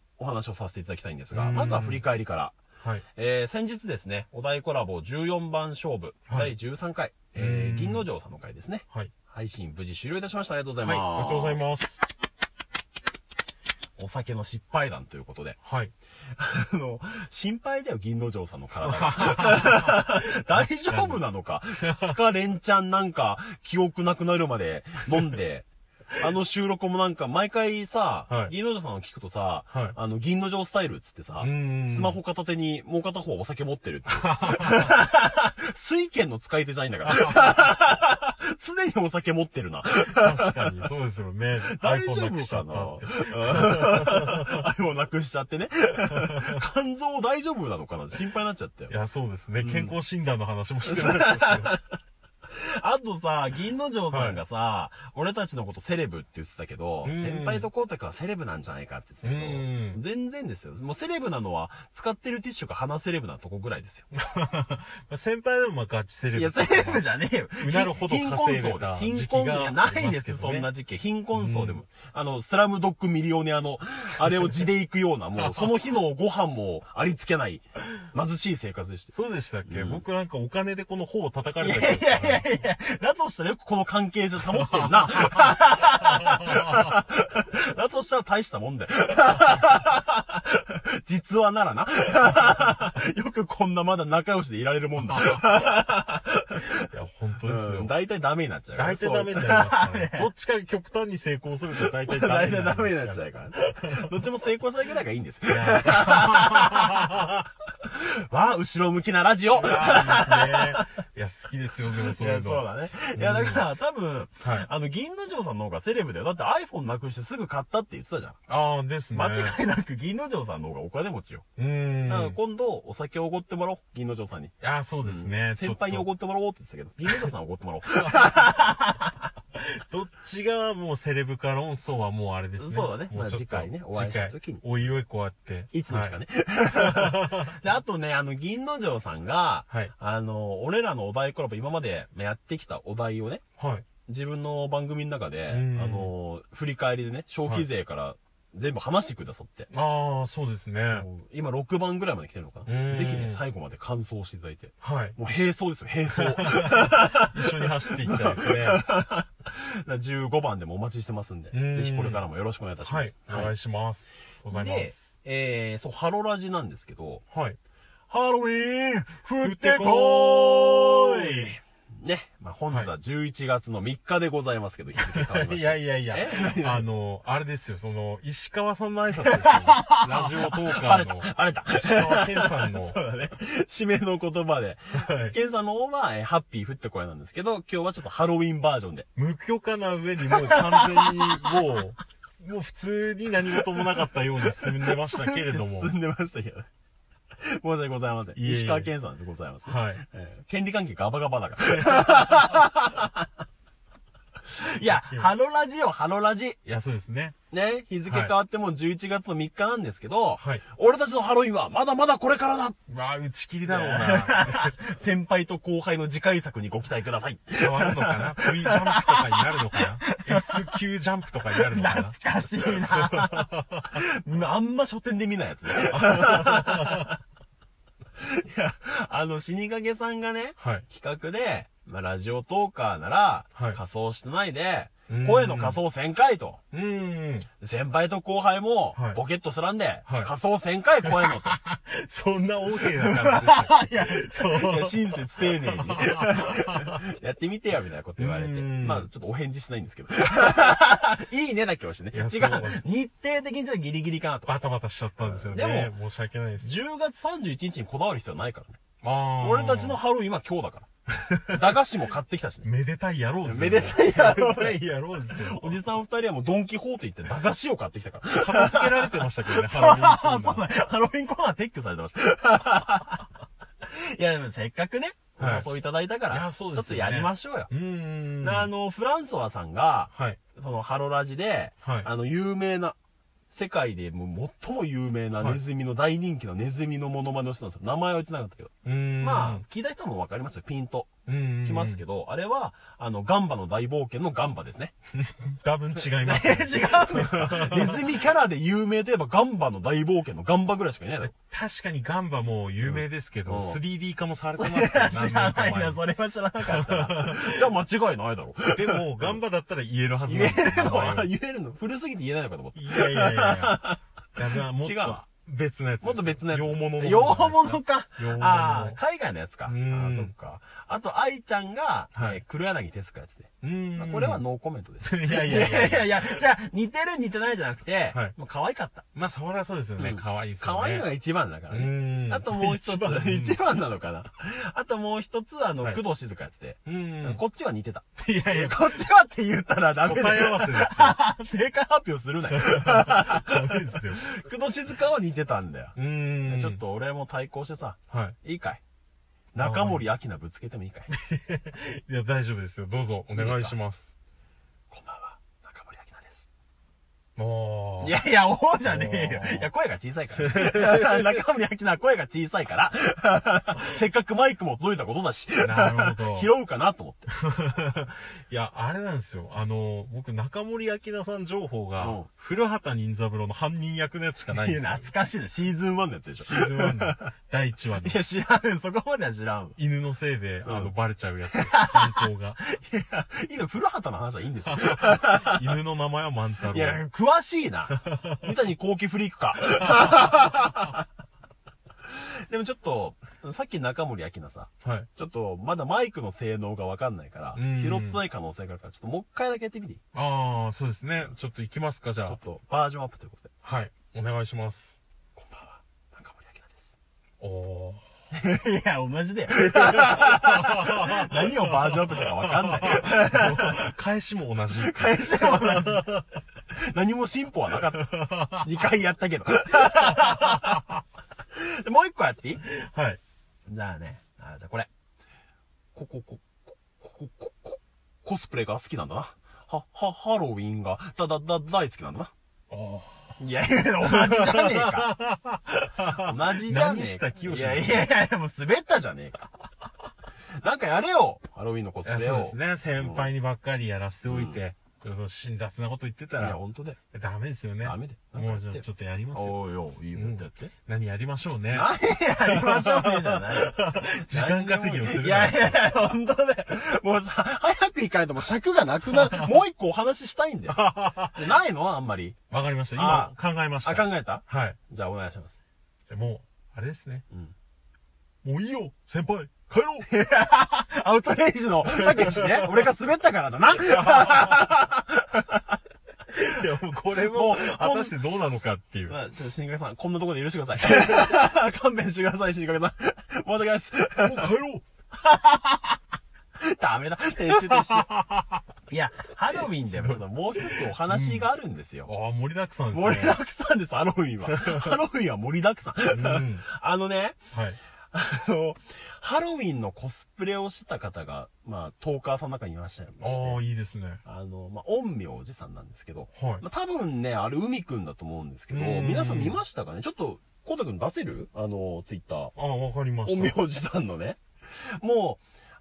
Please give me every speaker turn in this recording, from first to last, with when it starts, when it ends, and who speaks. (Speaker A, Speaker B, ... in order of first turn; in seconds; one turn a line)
Speaker A: 0.2-2.5
Speaker B: 1.3-2.0
Speaker A: 3.1-11.7
Speaker B: 7.4-8.1
Speaker B: 10.8-12.0
Speaker A: 14.0-15.6
Speaker B: 15.6-15.9
Speaker A: 16.4-40.5
Speaker B: 18.8-20.1
Speaker B: 20.9-21.2
Speaker B: 31.4-32.2
Speaker B: 34.2-34.9
Speaker B: 37.1-37.5
Speaker B: 40.0-44.6
Speaker A: 41.7-49.0
Speaker B: 46.3-46.5
Speaker B: 48.9-51.8
Speaker A: 49.6-49.9
Speaker A: 50.9-51.8
Speaker A: 52.5-64.1
Speaker B: 54.1-54.4
Speaker B: 57.0-57.6
Speaker B: 59.2-60.0
Speaker B: 64.1-67.0
Speaker A: 66.3-79.1
Speaker B: 67.6-70.7
Speaker B: 71.3-71.8
Speaker B: 75.4-75.7
Speaker B: 79.1-82.5
Speaker A: 79.7-80.0
Speaker A: 81.6-96.9
Speaker B: 84.5-85.6
Speaker B: 95.0-95.5
Speaker B: 96.9-97.9
Speaker A: 97.4-100.3
Speaker B: 98.7-104.1
Speaker A: 102.0-107.2
Speaker B: 105.5-107.4
Speaker A: 107.8-111.0
Speaker B: 109.6-113.6
Speaker A: 112.0-118.4
Speaker B: 114.4-114.7
Speaker B: 118.5-119.6
Speaker A: 119.1-121.5
Speaker B: 121.6-122.4
Speaker A: 122.1-129.1
Speaker B: 124.6-126.1
Speaker B: 129.6-136.2
Speaker A: 132.6-134.6
Speaker A: 135.7-143.4
Speaker B: 136.8-137.5
Speaker B: 143.6-143.8
Speaker A: 144.1-149.7
Speaker B: 145.5-146.1
Speaker B: 149.7-151.1
Speaker A: 150.9-157.4
Speaker B: 152.7-153.4
Speaker B: 154.8-155.2
Speaker B: 156.1-158.8
Speaker A: 158.0-163.5
Speaker B: 161.5-162.2
Speaker B: 162.8-165.1
Speaker A: 164.5-167.2
Speaker B: 167.3-167.6
Speaker A: 168.1-176.8
Speaker B: 169.4-171.5
Speaker B: 175.0-183.0
Speaker A: 179.2-189.1
Speaker B: 184.9-185.4
Speaker B: 189.2-195.9
Speaker A: 190.3-191.5
Speaker A: 194.6-196.7
Speaker A: 197.4-203.3
Speaker B: 198.3-198.9
Speaker B: 199.7-200.0
Speaker B: 201.8-202.3
Speaker A: 204.5-206.6
Speaker B: 204.9-205.3
Speaker B: 206.7-207.3
Speaker A: 207.5-212.8
Speaker B: 208.1-208.3
Speaker B: 210.4-210.6
Speaker B: 212.9-214.7
Speaker A: 213.7-220.7
Speaker B: 217.6-223.8
Speaker A: 221.5-227.2
Speaker B: 226.0-227.0
Speaker A: 228.2-236.6
Speaker B: 230.6-230.9
Speaker B: 235.1-235.8
Speaker B: 236.7-237.5
Speaker A: 237.6-241.6
Speaker B: 238.9-239.2
Speaker B: 240.1-240.3
Speaker B: 241.0-247.0
Speaker A: 243.0-254.5
Speaker B: 248.2-249.1
Speaker B: 252.1-252.8
Speaker B: 254.5-256.7
Speaker A: 255.2-255.9
Speaker A: 256.6-258.8
Speaker B: 259.0-260.0
Speaker A: 259.4-260.9
Speaker B: 261.1-261.6
Speaker A: 261.5-262.7
Speaker B: 262.6-265.8
Speaker A: 263.4-273.2
Speaker B: 268.4-270.7
Speaker A: 273.9-277.7
Speaker B: 275.4-275.7
Speaker B: 276.3-278.7
Speaker A: 278.4-283.0
Speaker B: 280.1-280.4
Speaker A: 283.5-291.1
Speaker B: 288.9-289.6
Speaker B: 291.3-292.0
Speaker A: 291.6-294.9
Speaker B: 295.2-298.1
Speaker A: 296.2-301.3
Speaker B: 301.2-306.0
Speaker A: 302.8-303.8
Speaker A: 304.6-309.4
Speaker B: 306.7-307.6
Speaker B: 308.7-311.3
Speaker A: 310.3-314.0
Speaker B: 312.8-313.8
Speaker B: 314.4-319.0
Speaker A: 314.8-315.3
Speaker A: 316.0-329.1
Speaker B: 319.7-320.3
Speaker B: 322.1-322.4
Speaker B: 323.6-324.4
Speaker B: 325.0-326.4
Speaker B: 329.1-331.1
Speaker A: 330.0-348.8
Speaker B: 331.7-333.6
Speaker B: 336.9-337.4
Speaker B: 338.2-338.9
Speaker B: 340.0-341.2
Speaker B: 342.5-344.2
Speaker B: 346.0-346.8
Speaker B: 348.1-348.4
Speaker A: 349.5-351.1
Speaker B: 349.6-350.0
Speaker B: 351.1-354.1
Speaker A: 353.3-353.8
Speaker A: 354.9-356.5
Speaker B: 357.4-358.2
Speaker A: 358.0-367.3
Speaker B: 358.8-359.7
Speaker B: 360.4-361.4
Speaker B: 365.6-366.5
Speaker B: 367.3-375.1
Speaker A: 372.0-372.3
Speaker A: 374.5-377.3
Speaker B: 376.4-378.2
Speaker A: 378.0-379.8
Speaker B: 379.8-382.6
Speaker A: 380.6-380.9
Speaker A: 381.5-385.6
Speaker B: 384.6-387.0
Speaker A: 386.7-391.1
Speaker B: 387.9-388.4
Speaker B: 390.0-390.3
Speaker A: 392.1-400.0
Speaker B: 394.8-395.1
Speaker B: 397.6-398.2
Speaker B: 400.1-402.4
Speaker A: 402.3-403.5
Speaker B: 403.6-404.9
Speaker A: 405.4-407.0
Speaker B: 407.4-408.1
Speaker A: 408.3-413.8
Speaker B: 409.8-416.3
Speaker A: 414.7-416.1
Speaker A: 416.7-420.9
Speaker B: 417.9-418.7
Speaker B: 420.1-420.8
Speaker A: 421.6-422.6
Speaker B: 422.6-423.2
Speaker A: 423.7-424.9
Speaker A: 425.9-432.3
Speaker B: 432.7-433.4
Speaker A: 433.4-435.1
Speaker B: 434.1-438.1
Speaker A: 436.1-439.5
Speaker A: 440.6-443.3
Speaker B: 442.0-446.6
Speaker A: 444.3-444.6
Speaker A: 446.4-447.0
Speaker B: 447.1-449.6
Speaker A: 447.8-450.7
Speaker B: 450.1-451.9
Speaker A: 451.7-462.4
Speaker B: 452.4-455.8
Speaker B: 459.1-459.5
Speaker B: 460.7-461.5
Speaker B: 462.5-464.8
Speaker A: 462.9-465.6
Speaker B: 466.1-467.2
Speaker B: 468.4-470.1
Speaker A: 470.1-475.6
Speaker B: 471.9-472.9
Speaker B: 473.8-474.7
Speaker B: 476.3-479.2
Speaker A: 477.2-478.2
Speaker A: 479.1-484.5
Speaker B: 484.2-484.8
Speaker A: 485.2-486.0
Speaker A: 486.6-488.1
Speaker B: 487.5-488.6
Speaker A: 488.9-492.1
Speaker B: 490.0-491.5
Speaker B: 492.1-493.4
Speaker A: 492.9-497.4
Speaker B: 494.5-494.9
Speaker B: 496.1-496.7
Speaker B: 497.5-497.8
Speaker A: 498.1-503.6
Speaker B: 503.2-504.2
Speaker A: 504.2-512.5
Speaker B: 506.4-506.6
Speaker B: 508.7-509.6
Speaker B: 512.5-513.6
Speaker A: 513.2-515.4